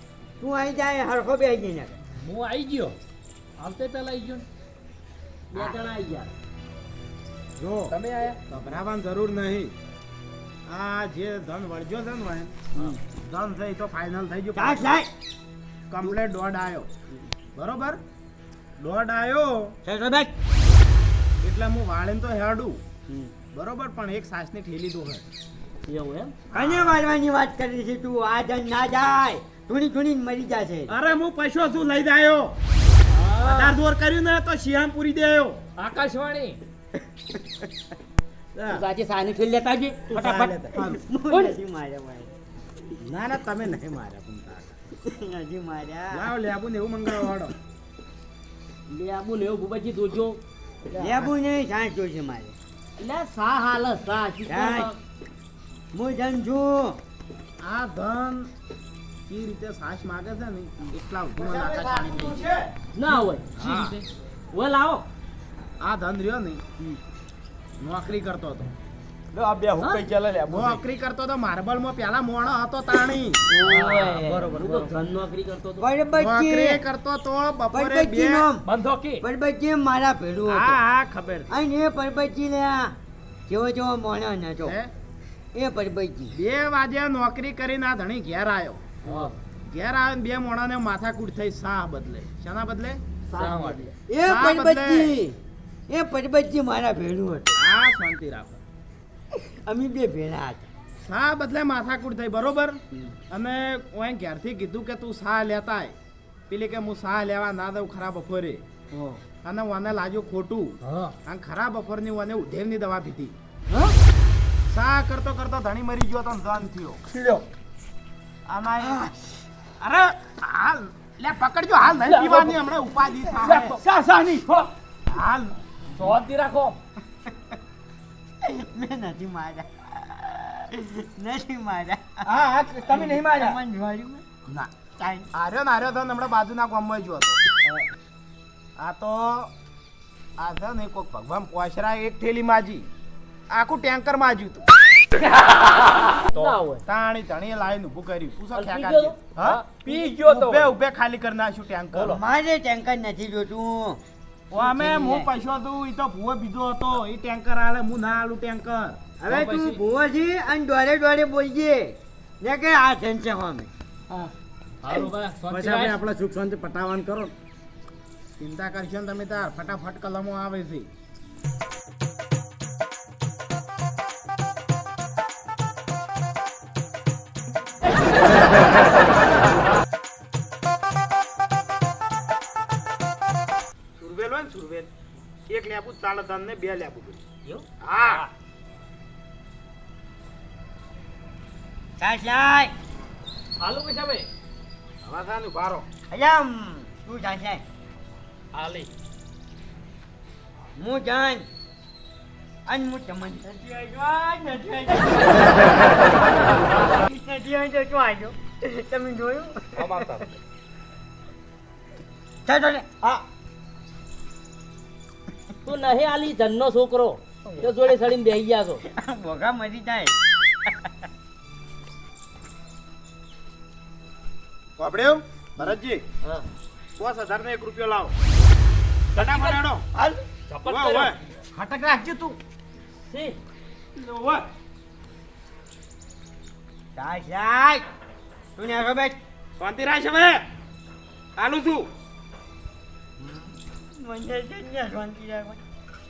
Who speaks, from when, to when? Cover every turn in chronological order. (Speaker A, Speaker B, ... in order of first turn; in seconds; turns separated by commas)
Speaker A: 0.4-2.0, Speaker B: 2.1-3.0, Speaker B: 3.6-4.4, Speaker C: 5.5-6.3, Speaker D: 7.6-8.0, Speaker B: 7.9-8.4, Speaker D: 8.5-9.7, Speaker D: 10.7-12.6, Speaker D: 13.3-14.9, Speaker A: 14.5-15.1, Speaker D: 15.9-16.9, Speaker D: 17.6-18.0, Speaker D: 18.8-19.7, Speaker A: 19.9-20.3, Speaker D: 21.4-22.8, Speaker D: 23.5-25.2, Speaker C: 25.9-26.3, Speaker D: 26.5-27.0, Speaker A: 26.5-30.9, Speaker D: 30.9-32.5, Speaker B: 33.1-33.8, Speaker D: 33.4-35.6, Speaker B: 35.8-36.6, Speaker A: 37.4-37.7, Speaker D: 38.5-38.8, Speaker C: 38.7-40.4, Speaker D: 40.1-41.0, Speaker A: 40.7-42.4, Speaker C: 41.3-41.5, Speaker D: 43.0-44.8, Speaker A: 45.0-46.3, Speaker D: 46.1-47.5, Speaker C: 48.9-50.4, Speaker C: 51.0-51.2, Speaker A: 51.0-52.6, Speaker C: 53.0-55.0, Speaker A: 54.5-54.9, Speaker A: 55.9-57.0, Speaker D: 57.7-58.5, Speaker D: 59.3-62.6, Speaker C: 63.0-63.5, Speaker B: 63.6-64.0, Speaker D: 63.6-64.0, Speaker C: 64.5-65.0, Speaker D: 65.8-66.6, Speaker D: 67.8-68.7, Speaker E: 69.3-70.8, Speaker D: 70.5-73.4, Speaker C: 73.5-75.9, Speaker A: 73.6-74.3, Speaker A: 75.8-76.8, Speaker D: 76.2-78.5, Speaker A: 77.7-78.7, Speaker B: 78.7-79.2, Speaker A: 79.2-80.8, Speaker D: 80.5-81.5, Speaker A: 81.5-82.9, Speaker A: 83.5-84.8, Speaker A: 85.5-86.4, Speaker D: 86.4-88.8, Speaker B: 89.0-89.3, Speaker D: 89.7-93.0, Speaker B: 93.3-94.0, Speaker A: 93.4-95.4, Speaker D: 94.2-95.1, Speaker A: 95.9-97.6, Speaker D: 97.6-98.6, Speaker A: 99.3-100.7, Speaker D: 101.1-102.8, Speaker D: 103.3-105.9, Speaker D: 106.5-108.6, Speaker D: 109.5-110.8, Speaker D: 111.3-113.3, Speaker D: 114.7-117.0, Speaker D: 118.5-119.0, Speaker A: 118.8-119.2, Speaker D: 119.8-123.8, Speaker B: 122.1-122.5, Speaker B: 123.4-124.7, Speaker D: 125.1-126.1, Speaker B: 125.9-126.8, Speaker A: 128.4-132.3, Speaker D: 132.3-133.1, Speaker A: 132.8-134.2, Speaker E: 132.9-133.6, Speaker A: 135.0-135.3, Speaker D: 135.3-137.4, Speaker D: 138.8-139.5, Speaker D: 140.4-142.9, Speaker D: 143.5-144.7, Speaker C: 146.3-146.8, Speaker D: 146.4-149.6, Speaker C: 148.5-149.2, Speaker B: 149.4-150.8, Speaker D: 150.2-152.2, Speaker A: 151.9-154.0, Speaker D: 154.5-159.0, Speaker A: 154.6-155.2, Speaker A: 159.2-163.7, Speaker B: 159.3-159.8, Speaker B: 164.8-166.0, Speaker D: 165.5-167.3, Speaker D: 168.4-170.8, Speaker D: 184.0-184.9, Speaker D: 185.5-187.2, Speaker C: 187.4-188.3, Speaker D: 187.8-188.2, Speaker A: 192.0-192.7, Speaker B: 193.6-194.3, Speaker D: 195.0-195.9, Speaker A: 196.1-197.6, Speaker B: 198.5-198.9, Speaker A: 200.8-201.5, Speaker A: 202.7-205.9, Speaker A: 207.0-210.2, Speaker D: 209.8-210.3, Speaker A: 212.5-212.9, Speaker C: 215.7-218.8, Speaker A: 218.9-220.9, Speaker D: 224.8-226.0, Speaker D: 227.0-228.1, Speaker D: 229.2-229.8, Speaker C: 229.2-229.6, Speaker A: 230.0-230.2, Speaker D: 230.7-232.4, Speaker C: 233.1-233.4, Speaker D: 234.0-234.4, Speaker A: 237.0-237.8, Speaker A: 238.6-239.2, Speaker D: 239.6-240.4, Speaker D: 241.4-241.9, Speaker A: 243.2-245.6